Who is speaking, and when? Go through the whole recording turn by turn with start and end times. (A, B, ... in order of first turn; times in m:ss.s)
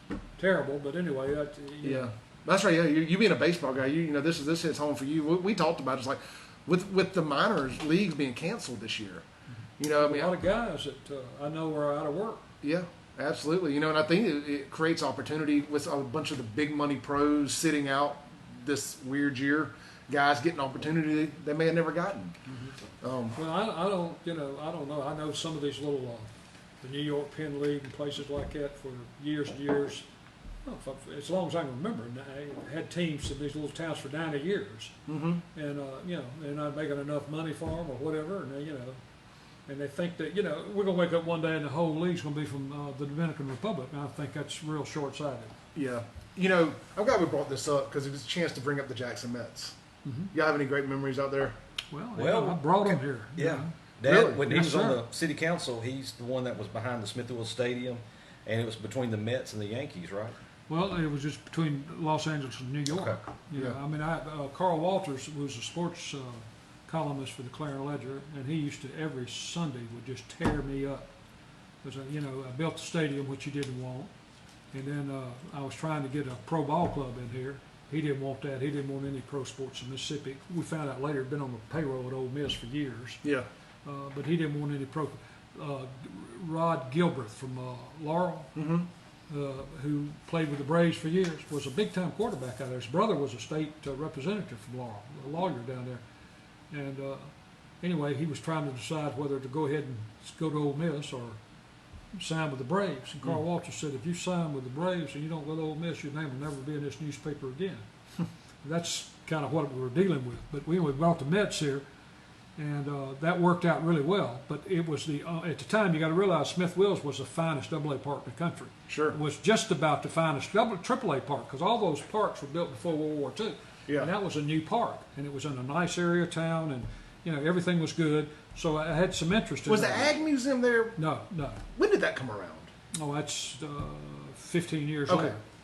0:00.4-0:02.1 A
0:01.8-0:09.2 B
0:09.8-0:10.4 B
0:10.0-0:12.4 A
0:12.6-0:22.4 B
0:22.5-0:22.7 A
0:23.0-0:23.4 B
0:23.3-0:26.3 A
0:26.8-0:30.0 A
0:30.6-0:34.9 A
0:35.1-0:35.4 B
0:35.5-0:39.0 A
0:39.7-0:45.5 A
0:45.7-0:49.8 B
0:50.0-0:50.3 A
0:50.3-0:51.6 B
0:51.9-0:53.7 A
0:52.2-1:00.4 C
0:54.0-0:54.4 B
0:54.4-0:55.0 A
1:00.7-1:11.1 A
1:02.9-1:03.2 C
1:11.8-1:14.1 A
1:14.7-1:23.2 A
1:23.8-1:28.5 A
1:28.6-1:28.9 B
1:29.3-1:36.0 A
1:36.7-1:37.3 A
1:37.8-1:41.4 A
1:42.1-1:47.8 A
1:48.6-1:51.8 A
1:52.6-2:10.2 A
1:58.9-1:59.2 B
2:09.7-2:11.0 B
2:11.0-2:11.6 A
2:11.7-2:12.7 B
2:13.0-2:15.4 A
2:15.1-2:15.4 B